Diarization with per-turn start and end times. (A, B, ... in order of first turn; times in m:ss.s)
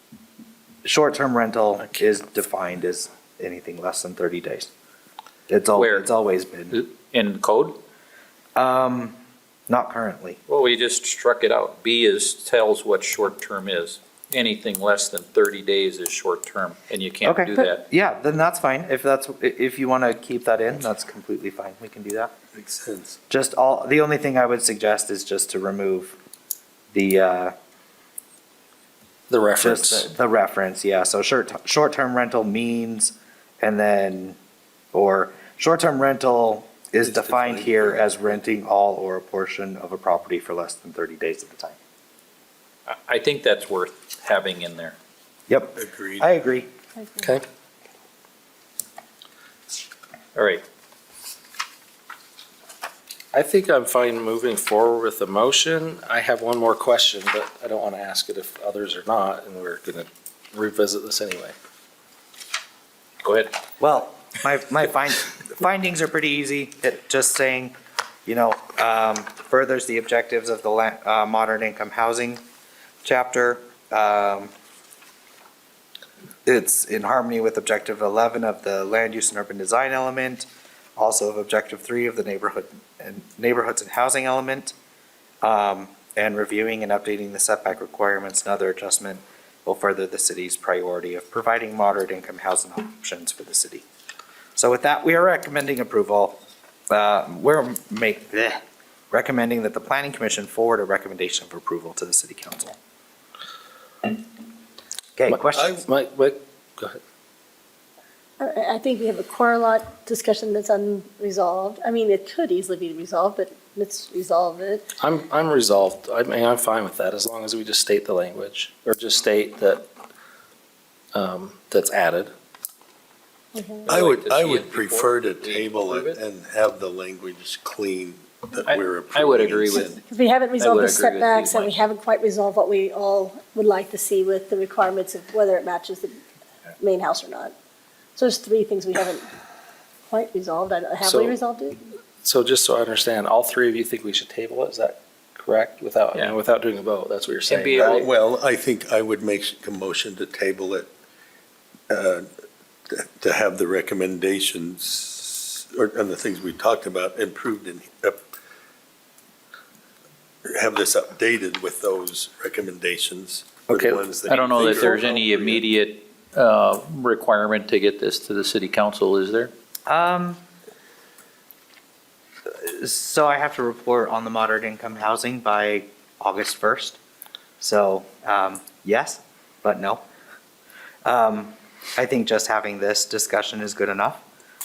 0:00.8-0:04.7 A
0:05.5-0:06.8 A
0:05.8-0:06.1 B
0:06.7-0:07.8 B
0:08.6-0:09.2 A
0:09.7-0:10.4 A
0:10.5-0:17.8 B
0:17.2-0:22.3 A
0:22.6-0:23.2 C
0:23.3-0:26.2 A
0:26.9-0:27.5 A
0:29.3-0:30.1 D
0:29.6-0:34.4 A
0:34.9-0:41.8 A
0:37.0-0:38.0 C
0:42.9-0:45.0 B
0:45.5-0:46.7 A
0:45.8-0:46.3 C
0:50.4-0:50.6 B
0:53.3-1:01.6 D
1:03.2-1:03.5 B
1:03.8-1:07.7 A
1:08.3-1:12.4 A
1:13.0-1:14.5 A
1:16.5-1:24.7 A
1:25.4-1:33.8 A
1:34.6-1:36.4 A
1:36.9-1:42.8 A
1:45.2-1:45.9 A
1:45.3-1:47.0 D
1:45.5-1:45.8 C
1:48.4-1:54.9 E
1:55.0-1:59.9 D
2:01.1-2:02.3 D
2:03.6-2:03.8 E
2:03.9-2:06.2 B
2:03.9-2:10.0 C
2:08.7-2:09.9 B
2:09.8-2:16.2 E
2:10.6-2:11.8 B
2:16.8-2:17.5 E
2:18.2-2:19.3 E
2:20.1-2:21.8 E
2:21.0-2:21.4 D
2:22.2-2:28.0 D
2:27.5-2:28.1 B
2:27.8-2:30.9 C
2:31.9-2:32.3 C
2:32.9-2:38.2 C
2:40.5-2:45.6 C
2:43.7-2:44.1 D
2:44.3-2:49.5 B
2:49.9-2:50.4 A
2:52.5-2:57.0 A
2:57.6-3:00.0 A
3:01.0-3:04.2 A